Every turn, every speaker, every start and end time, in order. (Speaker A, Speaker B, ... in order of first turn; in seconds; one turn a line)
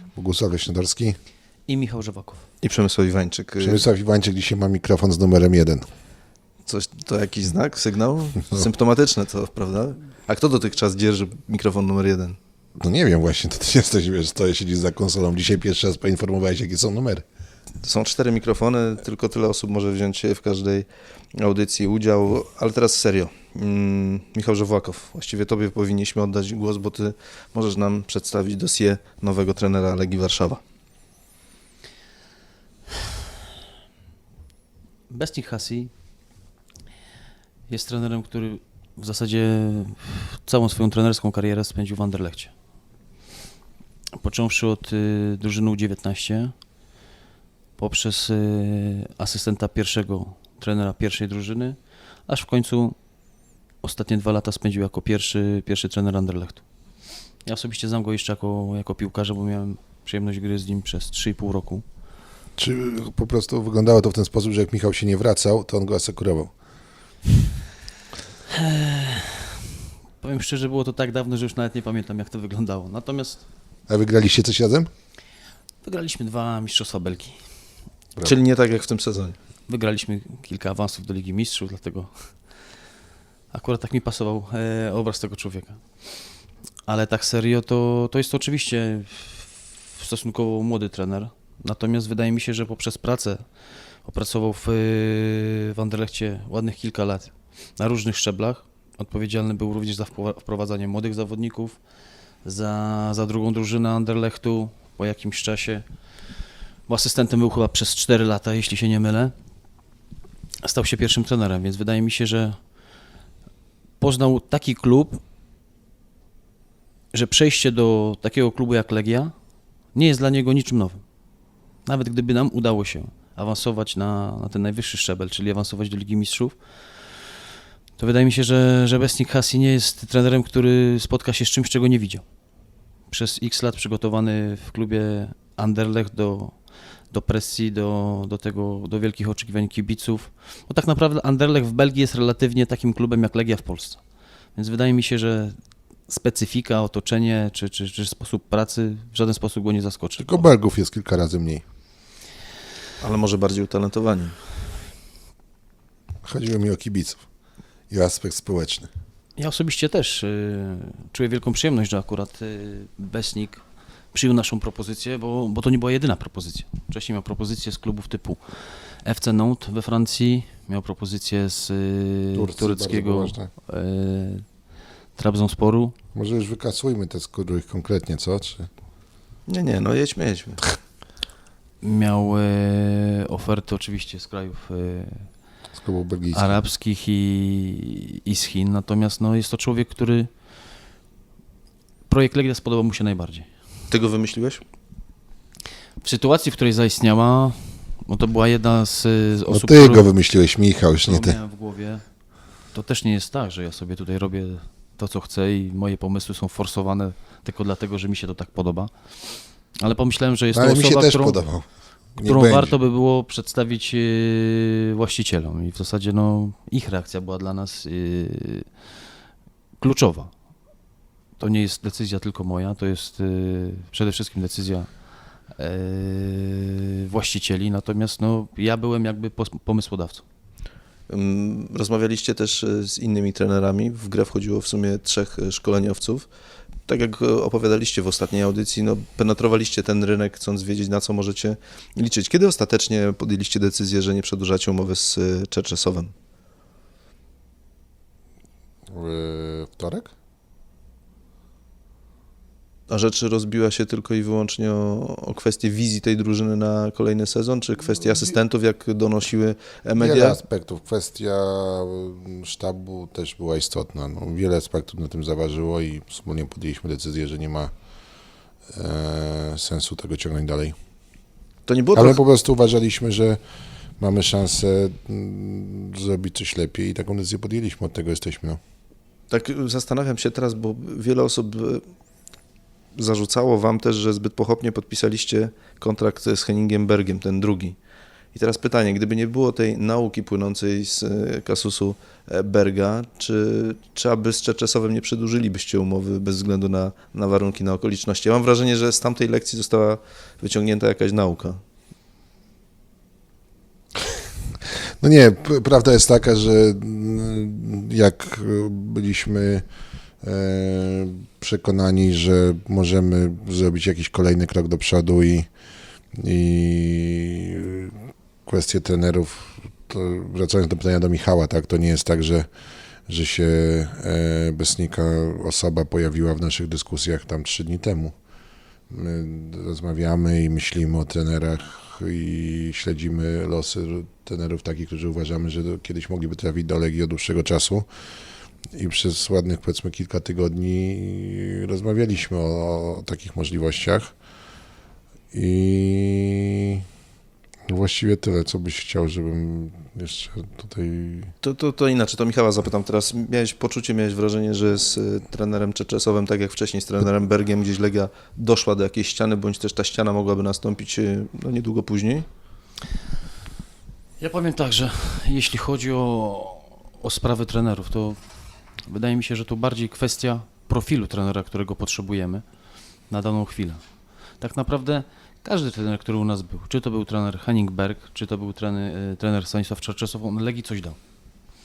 Speaker A: 0.1-1.2
Speaker B: 1.7-2.5
Speaker C: 2.6-3.8
Speaker A: 3.6-5.9
Speaker C: 6.7-12.4
Speaker A: 12.8-17.2
Speaker C: 17.8-30.6
Speaker B: 35.1-35.9
Speaker B: 37.7-42.5
Speaker B: 44.2-46.5
Speaker B: 47.8-53.0
Speaker B: 53.8-56.6
Speaker B: 57.4-61.8
Speaker A: 62.6-66.5
Speaker B: 68.5-69.6
Speaker B: 70.2-73.4
Speaker A: 73.9-74.9
Speaker B: 75.8-77.4
Speaker C: 78.2-79.3
Speaker B: 79.7-82.3
Speaker B: 83.5-86.1
Speaker B: 86.8-93.4
Speaker B: 94.0-101.8
Speaker B: 102.4-105.8
Speaker B: 106.9-109.3
Speaker B: 110.6-112.6
Speaker B: 114.0-115.2
Speaker B: 117.1-119.3
Speaker B: 119.9-121.0
Speaker B: 121.8-126.5
Speaker B: 128.0-132.2
Speaker B: 133.1-136.5
Speaker B: 137.1-144.0
Speaker B: 144.5-145.6
Speaker B: 146.1-150.5
Speaker A: 150.2-151.6
Speaker C: 153.0-154.3
Speaker A: 156.2-157.2
Speaker A: 157.9-158.9
Speaker B: 159.4-163.6
Speaker B: 164.1-174.4
Speaker A: 172.3-173.5
Speaker B: 175.2-175.9
Speaker A: 176.1-178.7
Speaker C: 179.5-180.6
Speaker B: 181.8-185.3
Speaker A: 185.7-186.6
Speaker B: 186.3-190.3
Speaker B: 192.1-193.5
Speaker C: 193.9-194.6
Speaker B: 196.0-200.1
Speaker A: 199.5-201.4
Speaker B: 201.0-202.0
Speaker B: 202.7-208.9
Speaker B: 209.8-211.4
Speaker A: 210.5-211.7
Speaker A: 212.2-212.8
Speaker B: 212.2-218.7
Speaker B: 219.8-220.3
Speaker B: 221.4-230.2
Speaker C: 231.1-236.3
Speaker C: 236.9-246.1
Speaker A: 248.9-250.1
Speaker C: 252.9-260.4
Speaker A: 260.0-267.7
Speaker A: 268.7-270.8
Speaker C: 271.7-272.2
Speaker A: 271.9-273.4
Speaker A: 274.0-278.6
Speaker C: 279.3-281.8
Speaker C: 282.9-287.8
Speaker C: 288.3-301.6
Speaker A: 304.6-309.6
Speaker A: 310.2-315.5
Speaker A: 316.1-322.5
Speaker A: 323.1-328.1
Speaker A: 328.9-337.9
Speaker A: 338.7-344.1
Speaker A: 345.3-346.8
Speaker A: 347.7-351.3
Speaker C: 351.4-362.2
Speaker B: 364.2-368.2
Speaker B: 368.9-372.4
Speaker B: 373.1-373.8
Speaker B: 374.4-381.0